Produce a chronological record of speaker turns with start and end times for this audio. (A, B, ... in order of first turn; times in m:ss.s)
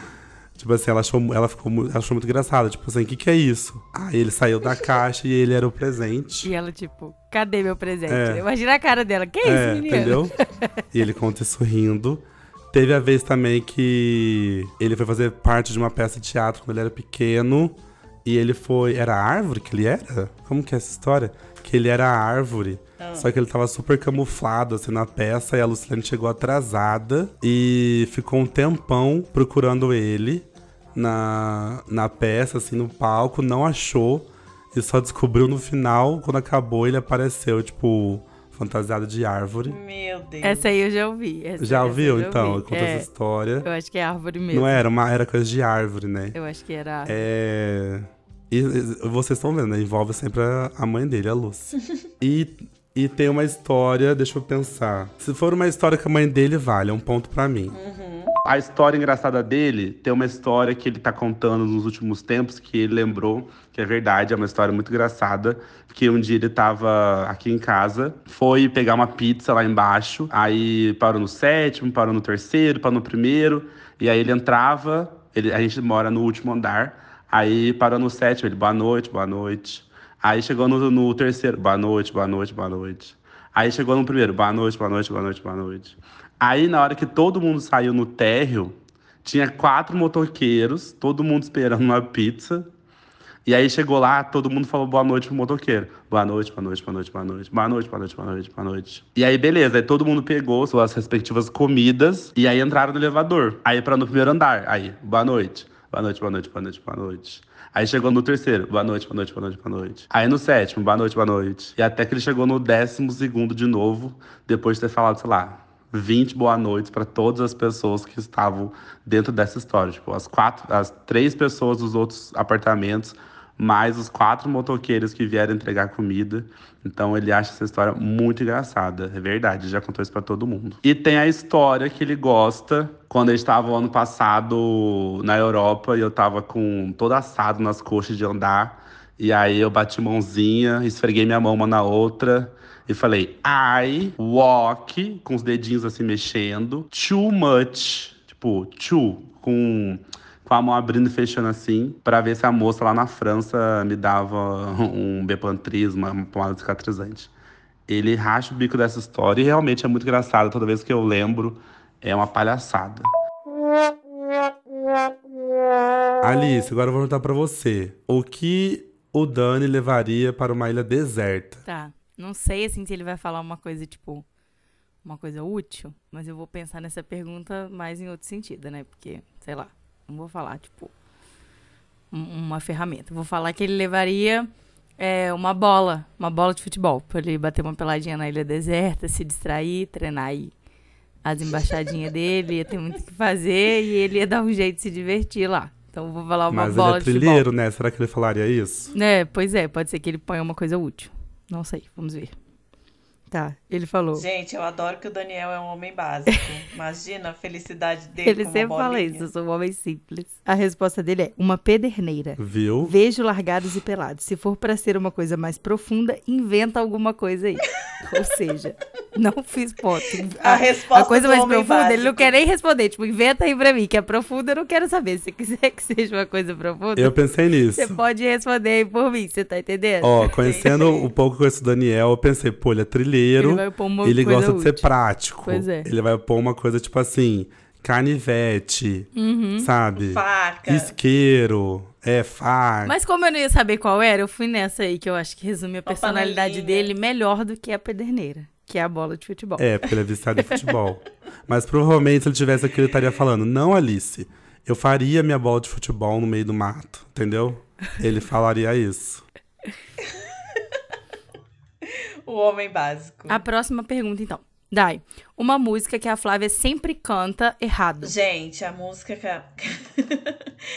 0:00.6-0:06.5 A
0:06.4-0:10.7 B
0:08.1-0:08.4 A
0:09.4-0:10.4 A
0:10.9-0:39.8 A
0:23.0-0:23.3 C
0:39.6-0:40.7 C
0:40.4-0:43.1 B
0:41.6-0:43.7 A
0:43.6-0:44.8 B
0:44.5-0:46.4 A
0:46.3-0:47.2 B
0:47.1-0:57.8 A
0:57.7-0:58.4 C
0:58.4-1:32.7 A
1:33.4-2:37.3 A
2:37.9-2:43.1 A
2:46.2-2:51.6 A
2:51.6-2:54.2 B
2:55.0-3:00.9 B
3:02.1-3:10.5 B
3:11.2-3:17.5 B
3:16.5-3:18.9 A
3:18.9-3:22.3 B
3:23.3-3:24.3 B
3:24.1-3:29.3 C
3:28.2-3:47.2 B
3:32.4-3:32.9 A
3:40.3-3:42.4 C
3:47.0-3:48.0 A
3:47.7-3:50.3 B
3:50.0-4:02.9 A
3:50.2-3:51.1 C
3:53.4-3:54.9 B
3:55.4-3:55.9 B
3:59.1-3:59.7 B
4:00.0-4:00.9 C
4:02.8-4:09.7 B
4:05.9-4:06.9 C
4:09.6-4:19.2 A
4:21.8-4:23.4 C
4:23.3-4:28.1 B
4:28.0-4:30.5 C